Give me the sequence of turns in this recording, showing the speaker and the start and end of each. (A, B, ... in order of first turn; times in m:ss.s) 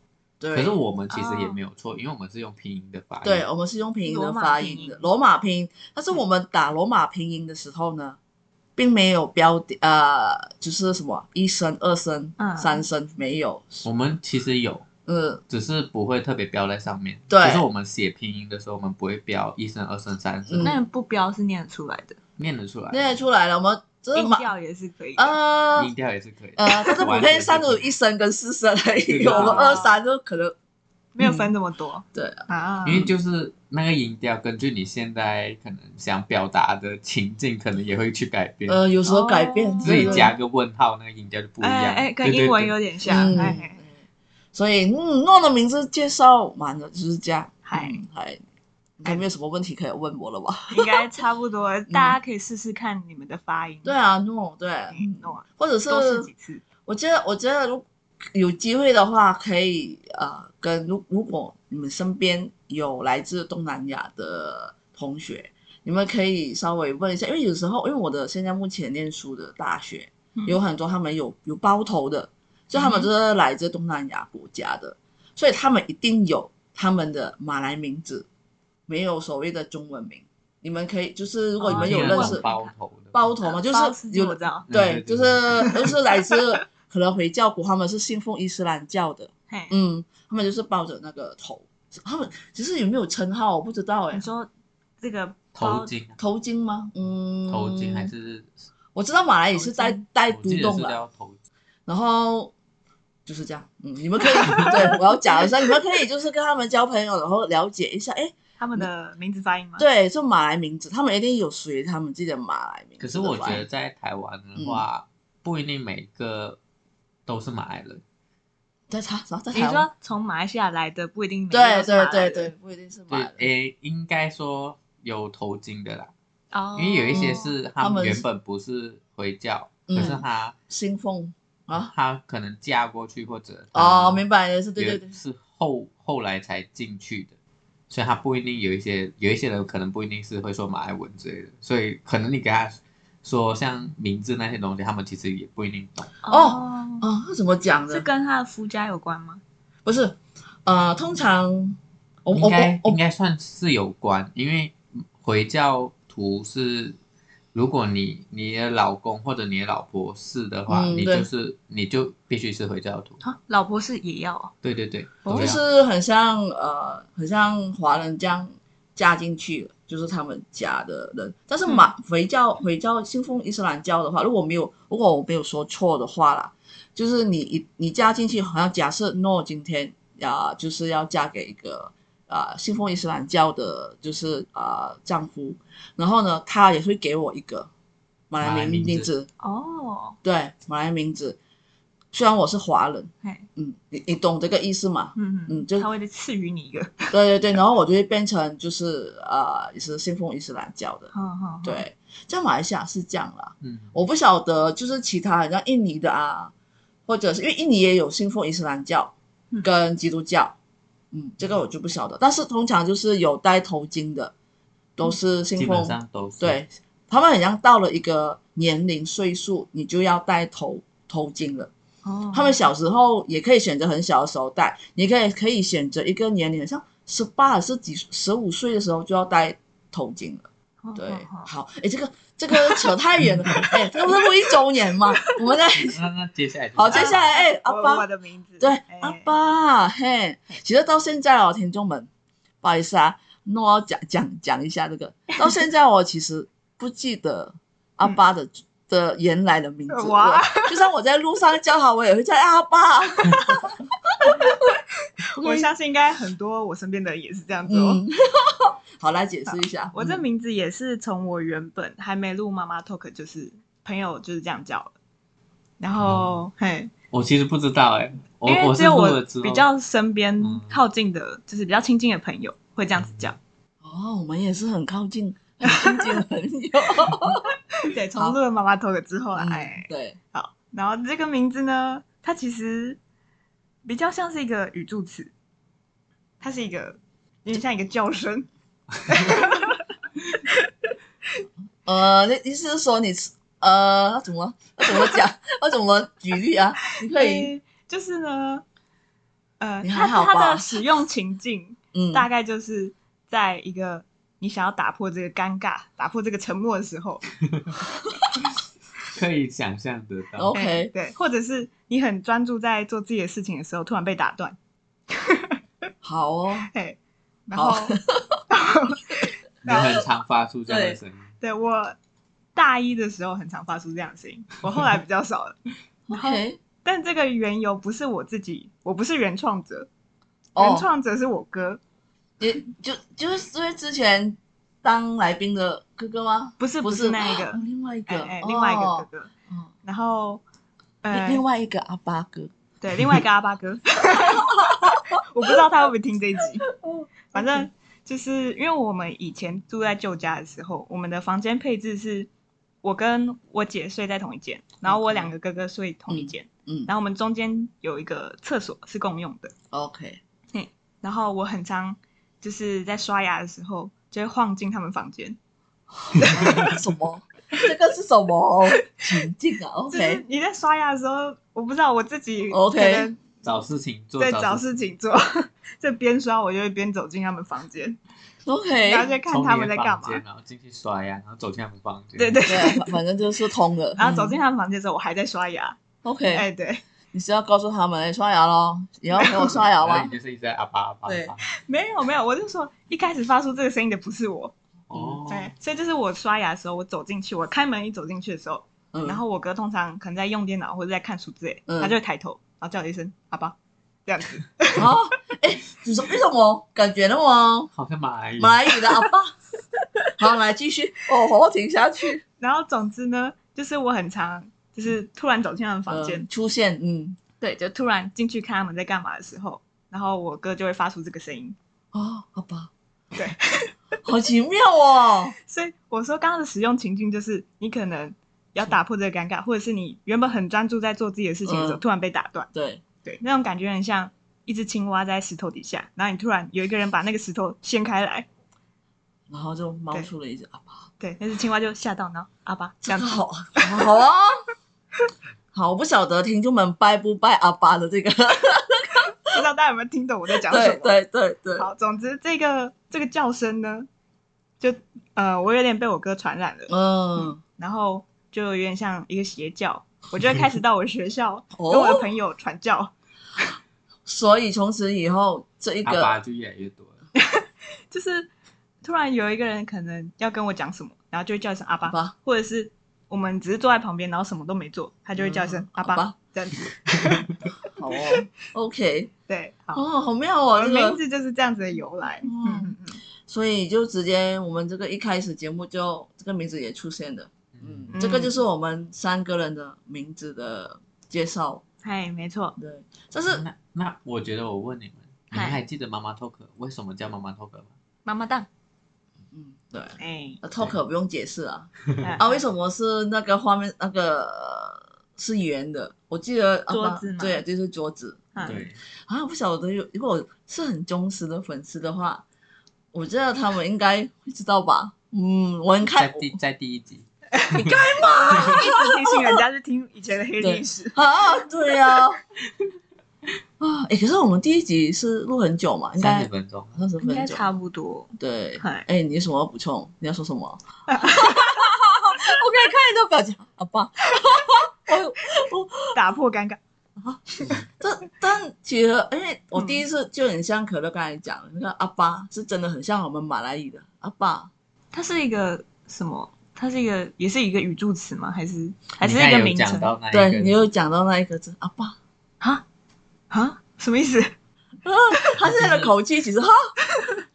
0:00.4-0:00.7 A
0:00.5-0:03.4 B
0:01.1-0:01.6 C
0:03.2-0:08.2 A
0:04.0-0:05.1 C
0:08.8-0:13.8 A
0:12.4-0:12.8 C
0:13.8-0:14.8 B
0:15.1-0:15.4 A
0:15.5-0:20.8 B
0:17.3-0:17.6 A
0:20.5-0:20.8 A
0:20.6-0:22.2 C
0:22.4-0:23.1 B
0:22.9-0:24.5 A
0:24.1-0:25.4 C
0:25.2-0:25.9 A
0:25.8-0:27.9 B
0:26.6-0:30.6 A
0:29.1-0:29.8 B
0:29.2-0:29.9 C
0:31.1-0:33.0 C
0:31.2-0:31.5 A
0:32.1-0:33.1 A
0:32.8-0:38.8 B
0:38.7-0:40.3 A
0:39.0-0:40.3 C
0:39.8-0:43.6 B
0:41.6-0:43.8 C
0:43.1-0:43.9 A
0:44.5-0:48.4 A
0:47.7-0:48.0 C
0:49.0-0:51.1 A
0:50.7-0:54.0 C
0:51.9-0:52.2 A
0:53.8-0:56.3 A
0:54.9-0:56.6 C
0:56.8-1:18.3 A
1:12.7-1:13.1 C
1:18.9-1:22.4 A
1:21.6-1:22.7 C
1:21.7-1:23.3 B
1:23.1-1:34.2 A
1:23.4-1:24.6 C
1:24.7-1:25.9 B
1:29.5-1:29.7 C
1:34.1-1:34.5 C
1:35.0-1:35.9 C
1:35.5-1:36.2 B
1:36.2-1:38.1 A
1:37.5-1:38.5 B
1:38.9-1:41.0 A
1:39.6-1:40.0 C
1:40.3-1:41.4 B
1:41.9-1:42.5 A
1:43.2-1:48.9 A
1:44.3-1:45.5 C
1:48.6-1:49.8 C
1:49.8-1:53.6 A
1:53.0-1:56.6 B
1:54.6-1:54.8 A
1:57.2-1:58.0 B
1:58.9-1:59.9 A
1:59.5-2:02.5 C
2:01.5-2:03.4 A
2:03.1-2:06.1 B
2:06.5-2:07.5 C
2:06.8-2:10.5 B
2:07.1-2:08.2 A
2:09.9-2:11.9 A
2:11.7-2:14.2 B
2:13.7-2:15.1 A
2:14.8-2:17.3 B
2:17.9-2:26.1 B
2:26.2-2:27.0 C
2:26.3-2:28.0 A
2:27.9-2:29.4 C
2:29.8-2:33.0 A
2:32.3-2:37.0 B
2:37.5-2:43.2 B
2:40.7-2:41.3 A
2:43.2-2:44.5 C
2:44.6-2:45.6 B
2:45.2-2:45.6 C
2:45.2-3:07.7 A
2:51.6-2:51.9 C
3:08.3-3:09.3 A
3:08.4-3:09.1 B
3:09.4-3:10.2 C
3:10.2-3:11.4 A
3:12.1-3:15.9 A
3:15.2-3:17.1 C
3:17.1-3:21.1 A
3:21.1-3:21.8 C
3:21.6-3:26.5 A
3:23.6-3:23.9 B
3:27.1-3:30.6 A
3:31.1-3:34.3 A
3:35.0-3:41.7 A
3:35.6-3:36.6 B
3:42.0-3:42.6 C
3:42.3-3:56.0 A
3:50.8-3:51.5 C
3:52.5-3:52.8 C
3:55.8-3:57.3 B
3:56.8-3:58.0 A
3:56.9-3:59.3 C
3:58.6-4:02.1 A
4:02.6-4:14.5 A
4:09.9-4:10.8 C
4:14.2-4:14.8 C
4:15.4-4:18.0 C
4:15.4-4:15.7 A
4:17.7-4:20.2 A
4:19.5-4:24.9 C
4:25.8-4:26.9 C
4:27.1-4:29.7 B
4:28.4-4:33.4 C
4:30.4-4:30.8 B
4:32.9-4:33.3 B
4:33.8-4:37.5 A
4:35.6-4:36.2 C
4:37.7-4:43.0 C
4:39.4-4:40.2 A
4:43.8-4:45.3 C
4:46.4-4:48.5 C
4:49.0-4:50.9 C
4:51.8-4:57.5 A
4:56.9-4:58.6 C
4:59.6-5:07.2 C
4:59.8-5:00.8 A
5:01.9-5:02.3 A
5:07.5-5:07.8 B
5:09.0-5:10.5 B
5:10.4-5:10.9 A
5:10.5-5:14.6 C
5:15.1-5:15.6 C
5:16.0-5:16.7 A
5:16.7-5:18.0 C
5:17.5-5:18.4 A
5:18.5-5:20.0 C
5:19.6-5:21.3 B
5:20.7-5:21.0 A
5:21.4-5:22.0 C
5:22.5-5:25.6 C
5:26.1-5:26.6 A
5:26.1-5:29.9 C
5:30.5-5:30.9 A
5:30.6-5:31.8 C
5:32.4-5:39.7 A
5:36.6-5:39.3 C
5:39.8-5:40.4 C
5:41.0-5:41.4 C
5:41.1-5:42.5 A
5:42.8-5:46.7 C
5:44.2-5:45.6 A
5:46.7-5:47.7 A
5:47.3-5:52.3 C
5:52.8-5:59.5 C
5:54.8-5:55.3 A
5:56.1-5:56.9 A
5:59.7-6:00.2 A
6:00.5-6:05.4 C
6:06.1-6:06.8 C
6:06.2-6:10.2 A
6:09.9-6:13.2 C
6:12.5-6:13.1 A
6:13.4-6:14.8 B
6:14.2-6:18.0 C
6:18.4-6:19.1 A
6:18.8-6:20.2 C
6:19.2-6:22.5 B
6:22.2-6:23.0 C
6:22.5-6:24.4 A
6:24.0-6:25.8 C
6:26.0-6:26.4 A
6:26.3-6:26.8 C
6:27.1-6:30.1 A
6:29.1-6:29.6 C
6:29.8-6:31.5 B
6:31.0-6:31.3 A
6:31.5-6:34.5 C
6:34.9-6:35.5 B
6:35.3-6:44.9 C
6:38.9-6:39.2 A
6:41.7-6:42.0 A
6:44.7-6:47.7 A
6:47.7-6:48.7 B
6:48.4-6:49.3 A
6:50.2-6:52.2 A
6:52.4-6:56.3 C
6:55.9-6:57.2 A
6:57.4-7:01.6 C
7:01.9-7:02.7 A
7:03.1-7:03.7 C
7:04.0-7:05.3 A
7:05.4-7:12.5 C
7:11.4-7:11.8 A
7:12.5-7:12.8 A
7:13.0-7:18.3 C
7:19.3-7:20.9 A
7:21.0-7:23.9 C
7:22.8-7:24.4 A
7:25.5-7:29.1 A
7:29.3-7:30.9 C
7:30.4-7:31.7 A
7:31.6-7:33.9 C
7:34.6-7:42.9 C
7:36.7-7:37.4 A
7:41.5-7:42.1 A
7:44.0-7:46.1 A
7:45.8-7:47.0 B
7:47.2-7:48.3 C
7:48.8-7:58.1 C
7:51.9-7:52.1 A
7:55.2-7:56.1 A
7:57.6-7:59.1 A
7:59.3-7:59.8 C
7:59.7-8:01.0 A
8:00.5-8:03.0 C
8:02.2-8:11.6 A
8:07.5-8:07.9 B
8:07.9-8:08.3 C
8:11.8-8:12.6 C
8:12.6-8:13.4 A
8:13.3-8:17.7 B
8:15.3-8:15.6 C
8:18.0-8:18.5 C
8:19.3-8:32.2 A
8:20.0-8:20.4 C
8:22.0-8:22.4 C
8:26.7-8:27.4 C
8:28.3-8:28.6 C
8:28.4-8:28.8 B
8:32.9-8:36.3 A
8:35.9-8:37.8 B
8:37.3-8:41.0 C
8:37.5-8:39.3 A
8:40.4-8:42.2 A
8:43.6-8:47.4 A
8:46.0-8:46.8 B
8:47.0-8:48.9 C
8:48.2-8:55.9 A
8:50.9-8:51.7 C
8:55.9-8:56.6 C
8:57.0-9:04.5 A
8:59.6-8:59.8 C
9:04.9-9:09.9 C
9:09.0-9:10.6 B
9:10.1-9:12.0 A
9:13.3-9:14.3 C
9:14.8-9:16.7 A
9:15.4-9:15.9 B
9:16.9-9:17.2 C